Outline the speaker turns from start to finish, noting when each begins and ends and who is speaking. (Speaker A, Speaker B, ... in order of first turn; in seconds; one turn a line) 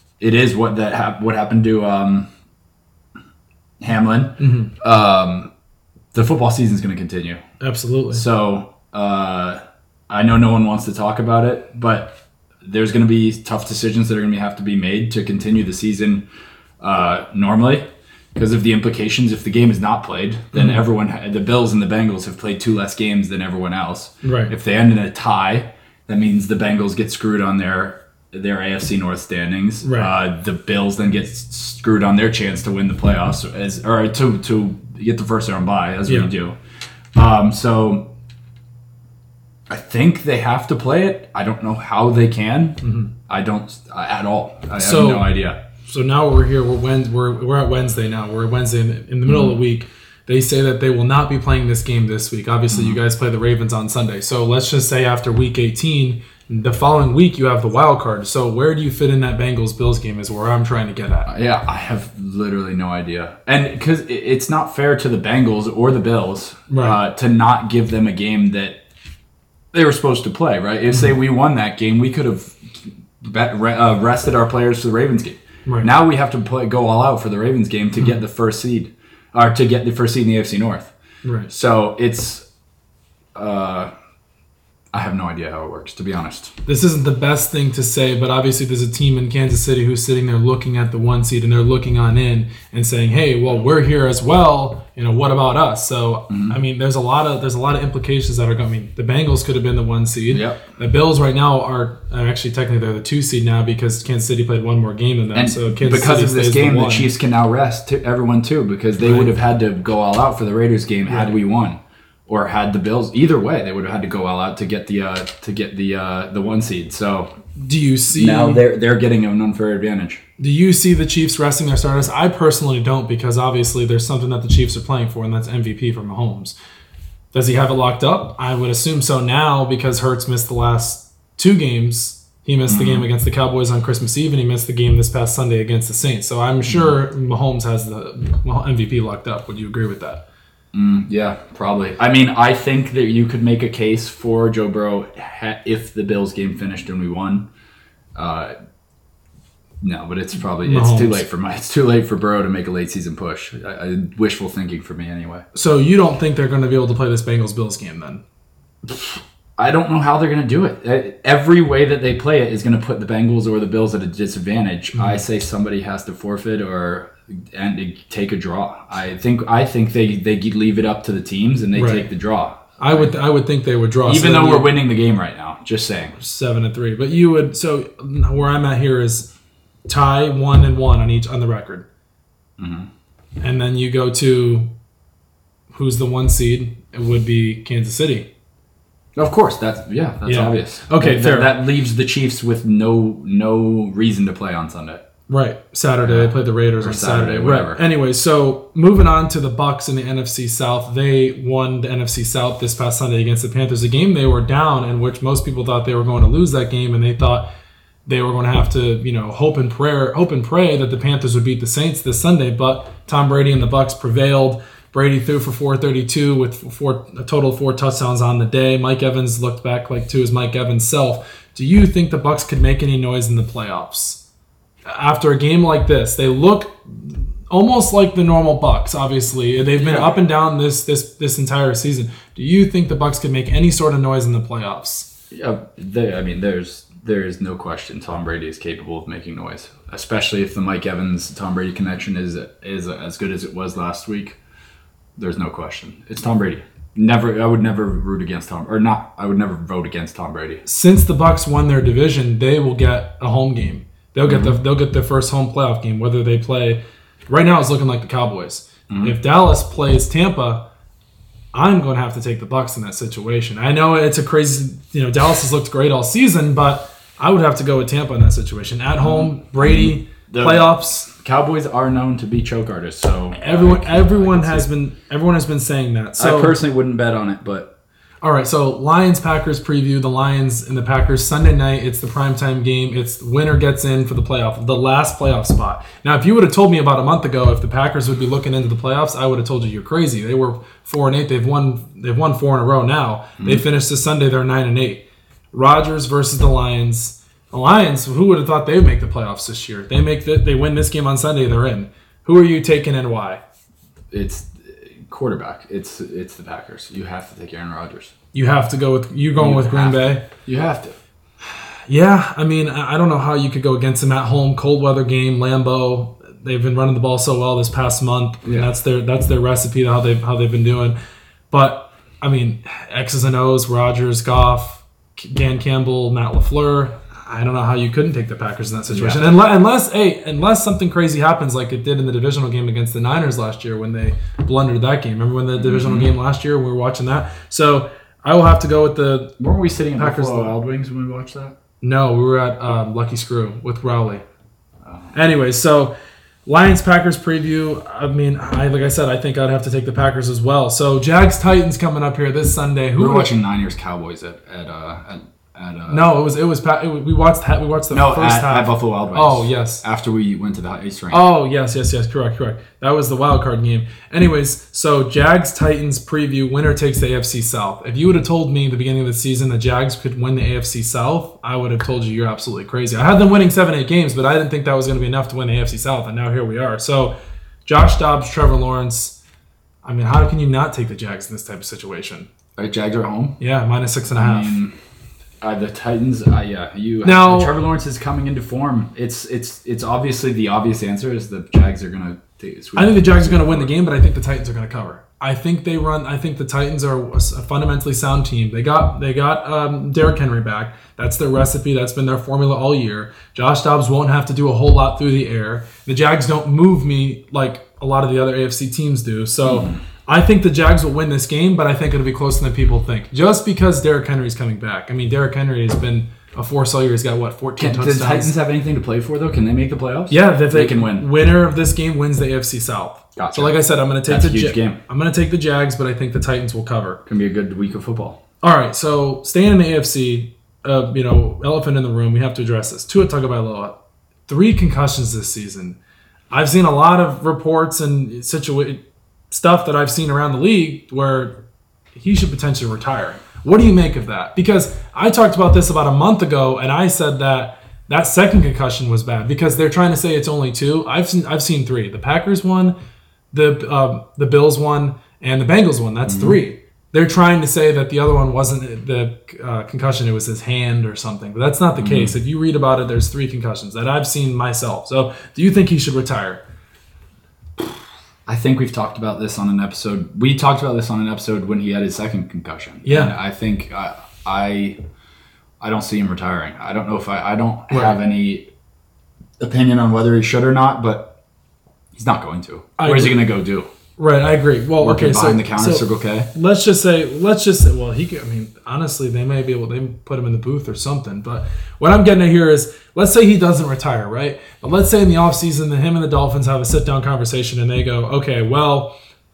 Speaker A: 0.2-2.3
Speaker A: 3.8-5.5
Speaker B: 4.4-4.7
Speaker A: 6.1-7.4
Speaker B: 7.6-8.2
Speaker A: 8.1-9.6
Speaker A: 10.1-16.2
Speaker A: 16.8-36.6
Speaker B: 24.2-24.5
Speaker B: 29.8-30.1
Speaker B: 36.1-36.3
Speaker A: 37.1-38.1
Speaker A: 39.7-45.6
Speaker B: 42.8-43.1
Speaker B: 44.8-61.3
Speaker A: 52.7-53.0
Speaker A: 61.3-68.8
Speaker B: 66.7-67.0
Speaker A: 69.7-80.9
Speaker B: 81.2-81.5
Speaker A: 81.5-82.4
Speaker A: 83.3-83.9
Speaker A: 84.9-86.5
Speaker B: 86.7-107.1
Speaker A: 96.3-96.6
Speaker A: 100.3-100.6
Speaker A: 105.3-117.3
Speaker B: 109.0-109.3
Speaker B: 111.1-111.3
Speaker B: 117.6-118.6
Speaker A: 118.1-120.2
Speaker B: 120.4-126.6
Speaker B: 127.3-140.2
Speaker A: 132.7-133.1
Speaker A: 136.7-136.9
Speaker A: 140.7-147.5
Speaker A: 148.2-148.5
Speaker A: 149.8-155.4
Speaker B: 150.6-151.2
Speaker B: 155.5-158.2
Speaker A: 158.9-173.2
Speaker B: 164.9-165.2
Speaker B: 171.7-172.1
Speaker B: 172.8-174.8
Speaker A: 174.1-176.2
Speaker B: 176.2-179.3
Speaker B: 179.9-181.9
Speaker A: 182.6-182.9
Speaker B: 183.4-184.7
Speaker B: 185.7-188.3
Speaker A: 189.2-195.0
Speaker B: 190.2-191.5
Speaker B: 195.3-207.5
Speaker A: 196.0-197.8
Speaker B: 208.1-224.2
Speaker B: 224.9-235.1
Speaker A: 229.8-230.2
Speaker A: 235.3-244.4
Speaker A: 245.2-250.6
Speaker B: 250.7-260.6
Speaker A: 254.3-254.6
Speaker A: 258.9-259.1
Speaker B: 261.5-271.1
Speaker A: 269.0-274.7
Speaker B: 273.4-276.6
Speaker A: 276.2-277.7
Speaker B: 278.2-303.4
Speaker A: 304.1-308.1
Speaker B: 308.3-310.3
Speaker A: 309.4-311.0
Speaker B: 311.9-321.0
Speaker A: 318.4-318.7
Speaker B: 321.5-339.4
Speaker A: 328.9-329.2
Speaker A: 335.6-336.1
Speaker A: 339.4-341.6
Speaker B: 340.0-340.5
Speaker B: 341.8-344.2
Speaker A: 344.9-345.1
Speaker B: 345.1-345.9
Speaker B: 346.5-353.3
Speaker A: 353.0-356.1
Speaker B: 355.9-359.8
Speaker A: 357.9-361.2
Speaker B: 361.1-377.1
Speaker B: 377.7-379.2
Speaker B: 379.8-382.3
Speaker A: 382.6-383.4
Speaker B: 383.4-384.6
Speaker A: 384.1-384.7
Speaker A: 385.4-393.7
Speaker B: 387.0-387.6
Speaker B: 392.8-418.3
Speaker A: 409.5-409.8
Speaker A: 417.6-421.1
Speaker B: 420.1-427.0
Speaker A: 423.2-423.6
Speaker A: 424.1-424.8
Speaker A: 427.1-428.2
Speaker B: 428.4-435.8
Speaker B: 436.3-441.4
Speaker B: 441.9-452.8
Speaker B: 453.3-466.4
Speaker A: 456.1-456.4
Speaker A: 461.8-462.1
Speaker A: 468.3-474.8
Speaker B: 472.9-473.1
Speaker A: 475.6-478.5
Speaker B: 477.7-478.0
Speaker A: 479.4-481.1
Speaker A: 481.9-483.7
Speaker B: 482.8-483.2
Speaker B: 484.0-498.9
Speaker A: 484.8-486.3